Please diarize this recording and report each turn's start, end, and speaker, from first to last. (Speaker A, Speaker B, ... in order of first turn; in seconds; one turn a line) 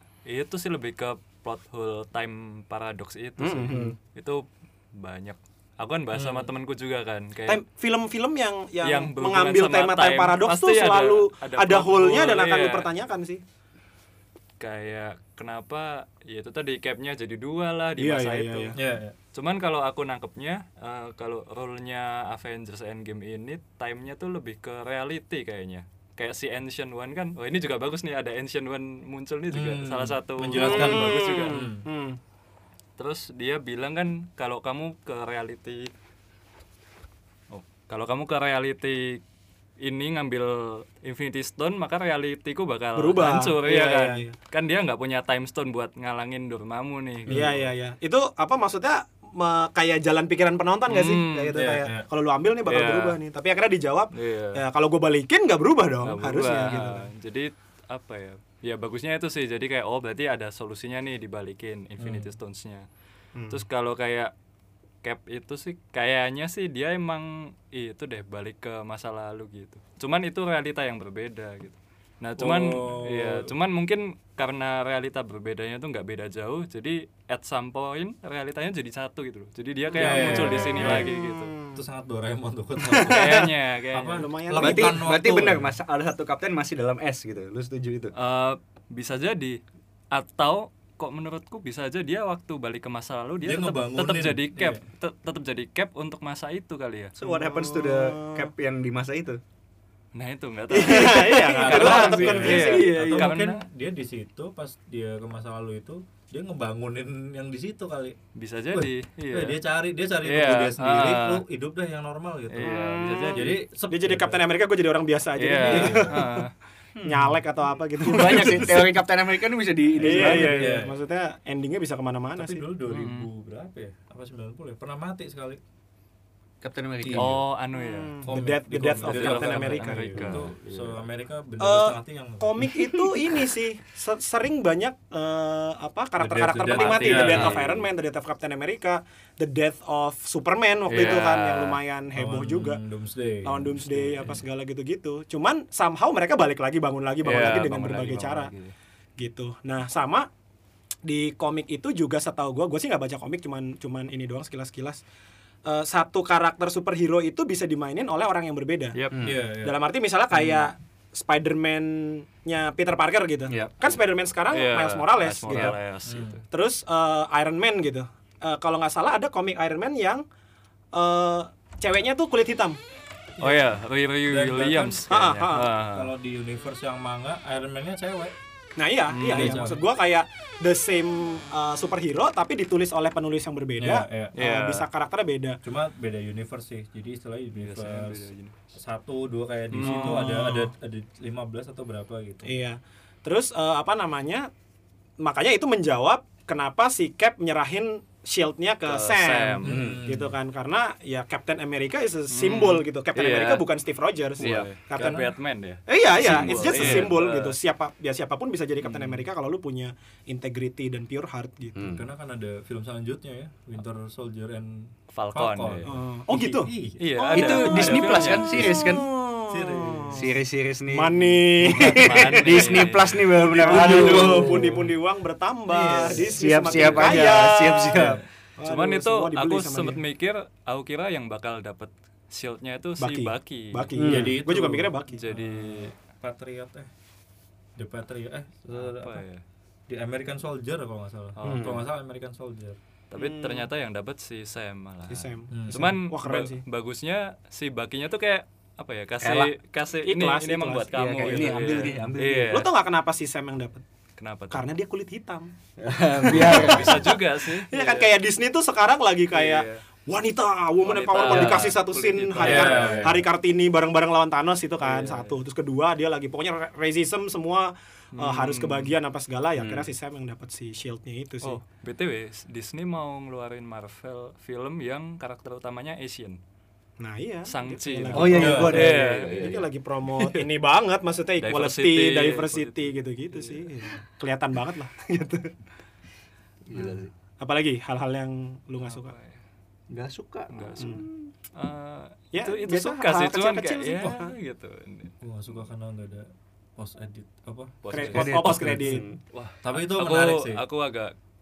Speaker A: 0.3-4.4
Speaker B: 3.4-3.9
Speaker A: 5.0-7.6
Speaker C: 6.1-6.5
Speaker B: 7.5-13.4
Speaker A: 8.8-12.9
Speaker A: 14.6-18.8
Speaker B: 18.0-18.8
Speaker C: 18.8-19.1
Speaker A: 19.3-31.7
Speaker C: 29.5-31.9
Speaker B: 30.5-32.2
Speaker A: 33.0-35.9
Speaker A: 37.5-39.2
Speaker A: 39.8-47.5
Speaker B: 43.0-44.3
Speaker B: 47.3-57.0
Speaker A: 50.9-51.6
Speaker C: 51.5-52.1
Speaker A: 52.7-53.2
Speaker A: 54.1-54.6
Speaker A: 56.0-62.9
Speaker C: 62.0-62.3
Speaker B: 63.4-63.6
Speaker A: 63.5-64.3
Speaker A: 65.0-81.5
Speaker C: 72.4-73.5
Speaker B: 79.9-81.8
Speaker C: 80.0-81.1
Speaker C: 81.7-85.7
Speaker B: 82.8-83.5
Speaker A: 83.1-84.3
Speaker B: 84.1-85.0
Speaker D: 84.6-88.1
Speaker A: 88.2-89.6
Speaker A: 90.1-97.1
Speaker C: 93.5-94.8
Speaker D: 97.2-99.4
Speaker B: 97.2-98.5
Speaker A: 100.1-103.6
Speaker B: 100.7-103.2
Speaker C: 101.2-108.2
Speaker D: 101.7-103.0
Speaker A: 108.3-109.6
Speaker C: 108.7-112.7
Speaker A: 110.2-111.4
Speaker A: 112.5-113.6
Speaker B: 112.7-116.5
Speaker C: 113.3-114.5
Speaker A: 115.4-116.5
Speaker C: 115.7-116.2
Speaker D: 117.0-117.3
Speaker B: 117.0-118.8
Speaker D: 118.0-120.8
Speaker C: 120.0-121.0
Speaker B: 120.0-122.7
Speaker C: 122.4-125.6
Speaker A: 122.9-123.3
Speaker D: 126.6-127.4
Speaker C: 127.0-127.5
Speaker A: 127.2-128.3
Speaker B: 127.8-130.3
Speaker C: 128.2-133.2
Speaker A: 128.9-130.6
Speaker D: 130.2-131.0
Speaker B: 131.6-142.8
Speaker C: 136.2-137.8
Speaker A: 136.7-137.6
Speaker A: 140.9-141.8
Speaker C: 140.9-141.2
Speaker C: 142.2-144.4
Speaker B: 143.4-148.5
Speaker A: 147.2-148.7
Speaker B: 149.2-150.3
Speaker B: 151.1-155.0
Speaker B: 155.7-158.9
Speaker A: 158.9-159.2
Speaker D: 159.1-159.4
Speaker C: 159.2-159.8
Speaker B: 159.6-165.8
Speaker D: 163.5-163.8
Speaker A: 164.5-166.4
Speaker C: 166.1-166.4
Speaker B: 166.5-170.2
Speaker B: 170.9-172.8
Speaker C: 173.4-173.7
Speaker A: 173.4-176.1
Speaker C: 174.3-175.1
Speaker B: 175.1-175.7
Speaker C: 175.8-178.3
Speaker B: 178.8-185.6
Speaker A: 179.2-179.6
Speaker C: 179.3-179.8
Speaker C: 183.8-184.5
Speaker A: 184.4-184.8
Speaker C: 185.6-192.5
Speaker A: 187.5-188.5
Speaker A: 189.7-190.3
Speaker B: 189.8-190.7
Speaker B: 192.4-194.5
Speaker B: 195.2-205.3
Speaker A: 198.9-200.0
Speaker D: 199.6-200.0
Speaker C: 199.6-200.3
Speaker A: 202.3-203.6
Speaker A: 204.4-207.6
Speaker D: 204.4-204.7
Speaker C: 205.0-205.3
Speaker B: 205.9-211.9
Speaker C: 206.2-207.1
Speaker A: 208.8-209.2
Speaker D: 211.8-212.1
Speaker C: 211.9-220.2
Speaker A: 215.1-215.9
Speaker B: 215.8-220.3
Speaker A: 217.0-218.4
Speaker D: 217.3-219.0
Speaker D: 220.1-221.2
Speaker B: 220.9-222.6
Speaker C: 221.6-222.9
Speaker A: 222.0-224.4
Speaker D: 222.3-224.8
Speaker B: 223.4-230.0
Speaker C: 223.5-224.9
Speaker C: 225.7-227.3
Speaker D: 226.2-228.2
Speaker C: 227.9-228.3
Speaker A: 228.6-234.0
Speaker B: 233.0-235.2
Speaker D: 234.0-234.3
Speaker C: 234.0-236.9
Speaker A: 235.1-235.9
Speaker C: 237.8-239.2
Speaker A: 238.7-239.4
Speaker C: 239.9-242.8
Speaker A: 241.4-241.8
Speaker D: 241.4-241.8
Speaker A: 243.1-252.7
Speaker D: 243.2-243.7
Speaker B: 245.1-246.6
Speaker C: 245.5-245.8
Speaker D: 249.2-249.5
Speaker B: 250.1-250.9
Speaker D: 250.9-252.7
Speaker C: 251.2-252.1
Speaker B: 252.5-253.8
Speaker A: 254.2-254.7
Speaker B: 254.5-255.5
Speaker D: 255.8-257.0
Speaker B: 256.2-271.6
Speaker A: 256.3-258.1
Speaker C: 256.4-256.7
Speaker A: 259.3-259.8
Speaker A: 260.8-263.2
Speaker D: 261.2-261.8
Speaker C: 262.4-263.2
Speaker A: 264.8-265.4
Speaker A: 268.1-268.9
Speaker D: 269.6-269.9
Speaker A: 271.4-276.4
Speaker B: 277.0-285.5
Speaker A: 277.5-279.6
Speaker D: 278.1-279.6
Speaker C: 278.2-278.8
Speaker A: 280.2-280.4
Speaker A: 281.4-283.7
Speaker D: 286.7-287.1
Speaker B: 286.8-289.1
Speaker A: 288.8-289.4
Speaker D: 289.9-291.3
Speaker A: 290.5-295.6
Speaker B: 292.3-294.3
Speaker C: 295.2-299.0
Speaker A: 297.8-298.6
Speaker B: 297.9-299.1
Speaker D: 298.1-299.2
Speaker A: 299.3-301.1
Speaker C: 299.6-300.6